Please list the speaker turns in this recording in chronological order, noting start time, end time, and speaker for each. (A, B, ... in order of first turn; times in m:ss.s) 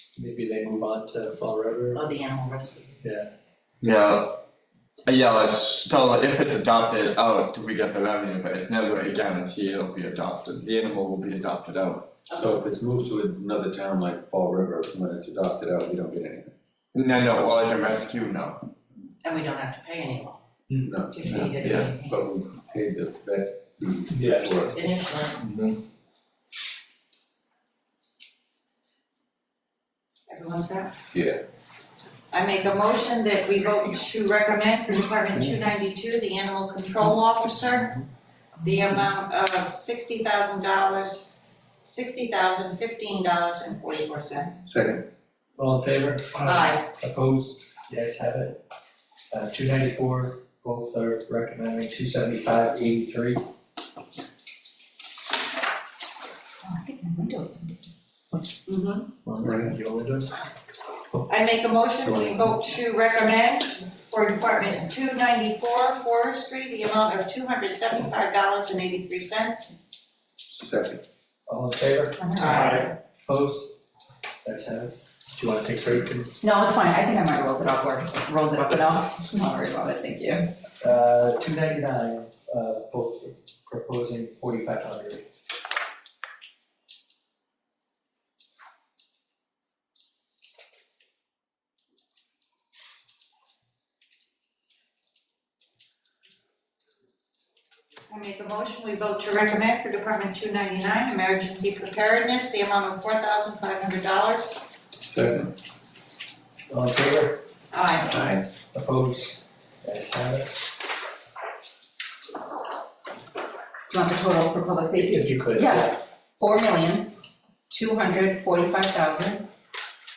0:00.2-0:02.0 A
0:01.9-0:03.0 B
0:03.0-0:03.3 A
0:03.8-0:04.4 C
0:05.0-0:12.0 C
0:12.3-0:12.6 B
0:12.3-0:16.5 D
0:16.9-0:18.6 C
0:19.2-0:20.4 B
0:20.7-0:20.9 A
0:20.9-0:24.8 D
0:21.1-0:22.2 B
0:21.2-0:22.0 C
0:24.1-0:24.6 A
0:24.7-0:25.4 B
0:25.4-0:25.8 C
0:30.3-0:30.9 B
0:31.1-0:31.4 D
0:32.3-0:38.0 B
0:38.6-0:41.2 B
0:41.8-0:44.6 B
0:44.6-0:45.0 D
0:45.6-0:48.6 A
0:46.4-0:46.8 B
0:49.3-0:53.4 A
0:56.6-0:57.8 E
0:58.6-0:59.1 B
0:59.2-1:00.4 A
0:59.4-0:59.7 D
1:01.3-1:09.7 B
1:02.0-1:02.5 D
1:10.4-1:11.0 D
1:11.5-1:13.7 A
1:12.6-1:12.9 B
1:14.4-1:16.3 A
1:16.4-1:20.5 E
1:20.8-1:25.2 A
1:38.1-1:44.6 B
1:45.0-1:45.5 D
1:46.7-1:47.4 A
1:47.7-1:48.1 B
1:48.0-1:48.4 D
1:48.7-1:50.6 A
1:53.9-1:57.2 E
1:55.0-1:56.0 A
1:57.7-1:59.5 E